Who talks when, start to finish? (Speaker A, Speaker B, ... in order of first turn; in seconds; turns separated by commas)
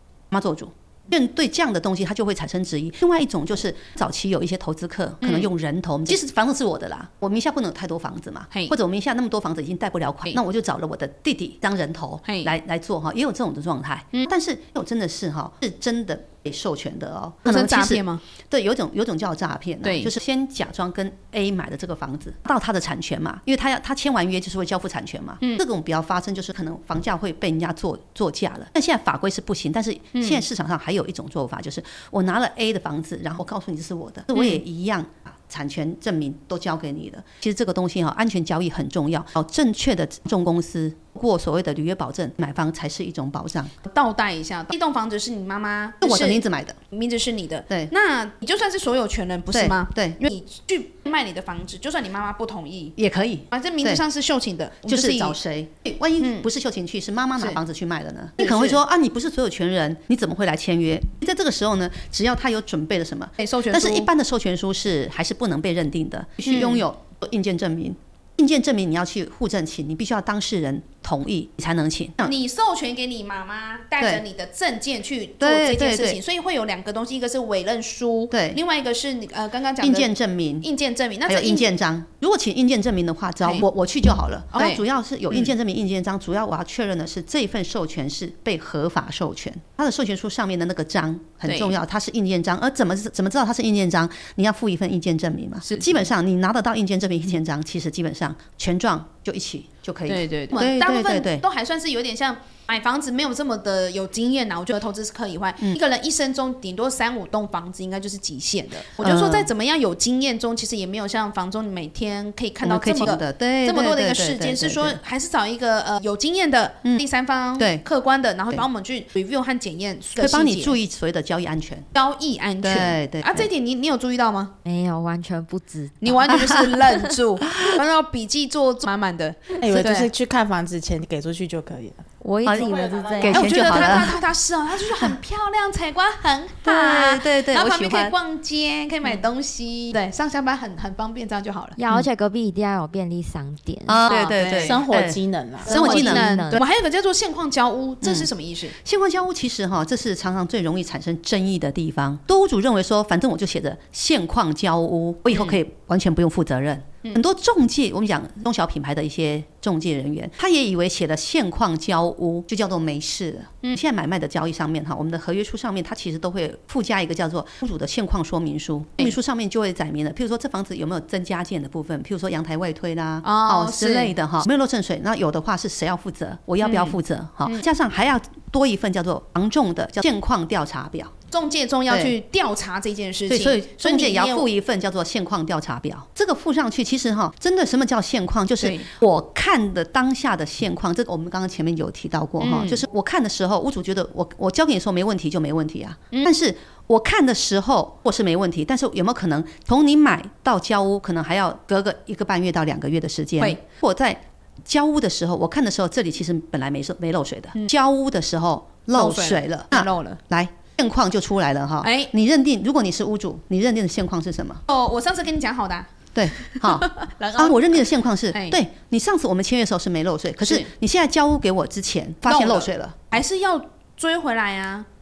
Speaker A: 0.3-43.7, Speaker B: 5.2-5.5, Speaker B: 12.2-12.5, Speaker B: 17.5-18.2, Speaker B: 19.8-20.1, Speaker B: 30.1-30.4, Speaker B: 34.3-34.6, Speaker B: 43.9-53.0, Speaker A: 46.0-46.8, Speaker A: 49.5-50.2, Speaker A: 53.0-54.0, Speaker B: 53.5-55.4, Speaker A: 54.9-72.3, Speaker B: 56.2-56.5, Speaker B: 58.4-58.8, Speaker B: 63.4-64.1, Speaker B: 66.5-66.8, Speaker B: 72.2-80.1, Speaker A: 75.4-76.2, Speaker A: 78.3-78.6, Speaker A: 79.8-80.7, Speaker B: 80.6-81.7, Speaker A: 81.3-101.4, Speaker B: 84.5-85.5, Speaker B: 91.5-91.8, Speaker B: 95.6-96.0, Speaker B: 100.1-120.8, Speaker A: 109.0-109.5, Speaker A: 112.6-115.0, Speaker A: 117.6-117.8, Speaker A: 120.2-121.9, Speaker B: 121.9-124.5, Speaker A: 122.6-123.5, Speaker C: 124.7-127.0, Speaker B: 126.0-130.1, Speaker A: 126.3-126.6, Speaker D: 129.6-134.0, Speaker C: 132.2-133.8, Speaker A: 132.4-134.2, Speaker B: 133.3-141.8, Speaker A: 136.6-138.2, Speaker C: 141.8-144.1, Speaker A: 143.9-146.6, Speaker B: 144.1-144.8, Speaker D: 144.5-145.7, Speaker C: 145.6-146.6, Speaker B: 145.7-148.8, Speaker A: 148.0-181.1, Speaker B: 173.2-174.2, Speaker B: 176.6-177.6, Speaker B: 181.3-184.5, Speaker A: 183.3-214.6, Speaker B: 188.6-188.9, Speaker B: 192.4-192.8, Speaker B: 208.9-210.2, Speaker B: 211.8-212.1, Speaker B: 214.7-218.6, Speaker A: 216.2-223.2, Speaker B: 220.4-220.7, Speaker B: 222.3-224.9